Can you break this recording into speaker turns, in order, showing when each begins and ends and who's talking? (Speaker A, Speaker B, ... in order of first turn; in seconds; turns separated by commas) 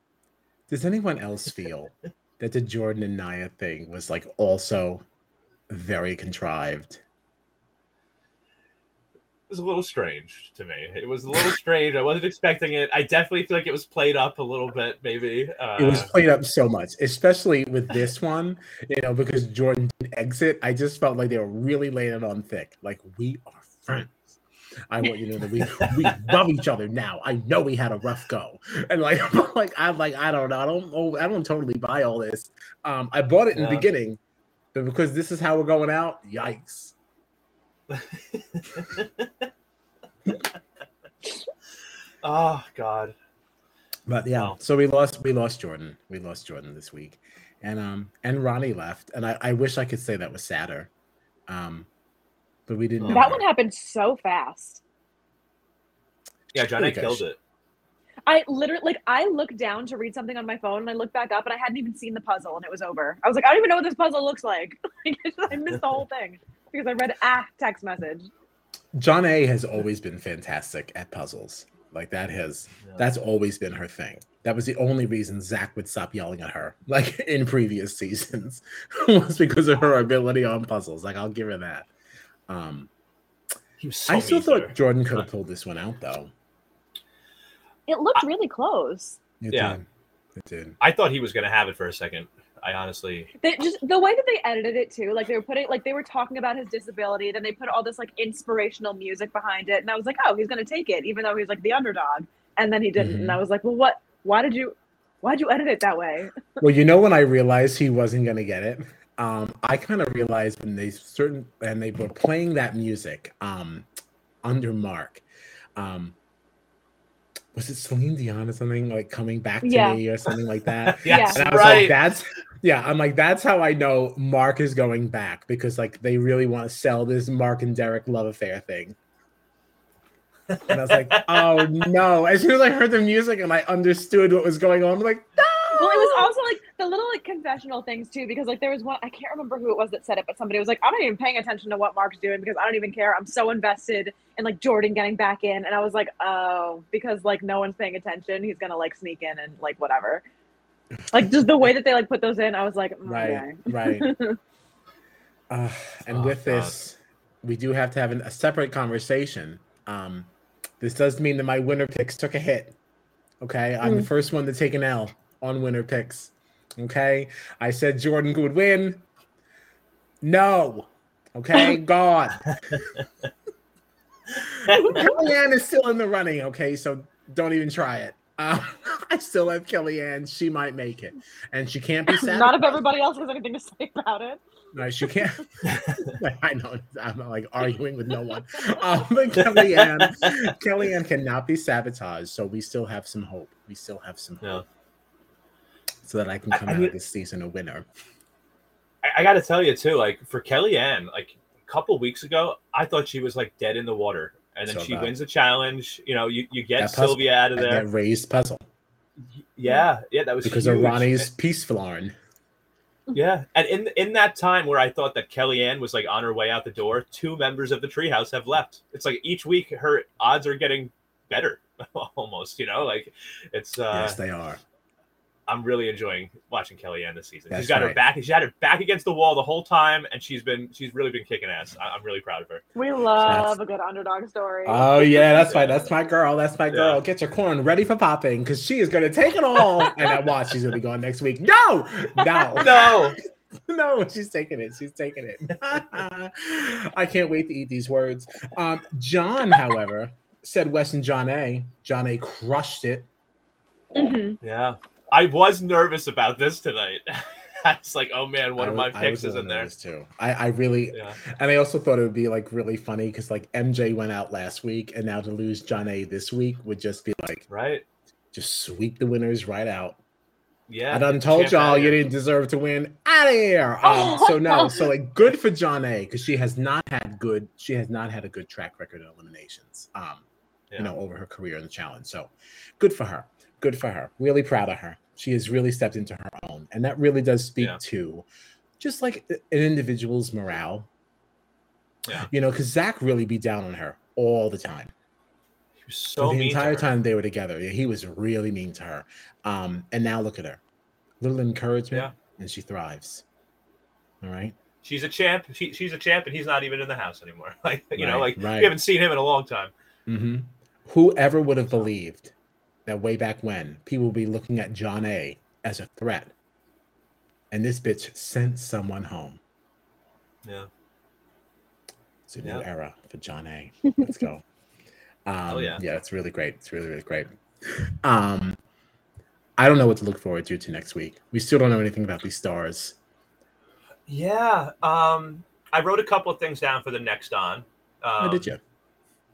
Speaker A: 0.7-5.0, Speaker A: 5.7-7.0, Speaker B: 9.5-16.1, Speaker A: 15.8-34.2, Speaker B: 25.8-26.3, Speaker B: 33.5-33.9, Speaker A: 34.7-37.0, Speaker B: 37.9-39.3, Speaker B: 42.2-43.1, Speaker A: 44.1-50.9, Speaker A: 51.5-51.9, Speaker A: 52.7-53.5, Speaker B: 53.0-53.4, Speaker C: 53.1-54.8, Speaker B: 56.5-57.4, Speaker A: 56.7-57.2, Speaker C: 58.3-68.3, Speaker A: 68.9-81.9, Speaker A: 82.5-82.9, Speaker B: 83.8-85.2, Speaker A: 84.1-86.3, Speaker C: 87.9-89.2, Speaker A: 89.4-89.8, Speaker B: 89.5-89.8, Speaker A: 90.4-90.8, Speaker B: 90.8-93.3, Speaker C: 93.4-106.4, Speaker A: 103.0-103.4, Speaker A: 106.6-113.9, Speaker A: 114.4-115.2, Speaker A: 115.8-116.2, Speaker A: 117.5-129.0, Speaker C: 119.6-120.0, Speaker B: 120.8-122.0, Speaker C: 121.1-121.5, Speaker B: 130.5-131.8, Speaker A: 130.7-136.3, Speaker C: 135.8-150.2, Speaker A: 151.0-151.7, Speaker C: 151.1-154.4, Speaker A: 153.1-154.1, Speaker A: 155.5-160.3, Speaker B: 156.1-156.8, Speaker A: 160.8-162.8, Speaker A: 163.4-169.1, Speaker C: 163.8-164.1, Speaker A: 170.2-172.9, Speaker A: 174.4-182.8, Speaker C: 174.7-175.2, Speaker C: 182.2-184.4, Speaker A: 184.7-194.6, Speaker B: 185.6-186.1, Speaker B: 189.4-190.4, Speaker A: 196.0-197.9, Speaker B: 196.5-196.9, Speaker B: 199.0-207.8, Speaker A: 204.7-205.1, Speaker A: 206.8-208.6, Speaker B: 209.3-211.3, Speaker A: 210.4-212.2, Speaker B: 213.1-224.2, Speaker A: 223.9-224.6, Speaker B: 225.5-232.6, Speaker A: 227.5-228.0, Speaker C: 232.8-235.5, Speaker A: 233.2-233.6, Speaker A: 234.7-253.1, Speaker B: 236.7-237.0, Speaker B: 242.6-243.2, Speaker C: 253.9-254.4, Speaker B: 254.4-259.7, Speaker A: 258.6-267.5, Speaker B: 267.5-267.8, Speaker A: 268.3-270.0, Speaker B: 270.7-272.0, Speaker A: 270.9-280.2, Speaker C: 273.8-274.8, Speaker A: 280.8-288.3, Speaker A: 288.8-290.9, Speaker A: 292.1-294.9, Speaker B: 295.9-296.9, Speaker A: 296.2-300.6, Speaker A: 301.2-303.2, Speaker A: 304.2-304.6, Speaker B: 304.8-309.7, Speaker A: 307.9-308.7, Speaker A: 310.1-312.3, Speaker A: 312.9-316.3, Speaker A: 317.5-319.4, Speaker A: 322.3-324.4, Speaker A: 325.3-328.6, Speaker B: 325.5-325.8, Speaker A: 329.6-333.0, Speaker B: 334.1-338.5, Speaker A: 338.2-338.6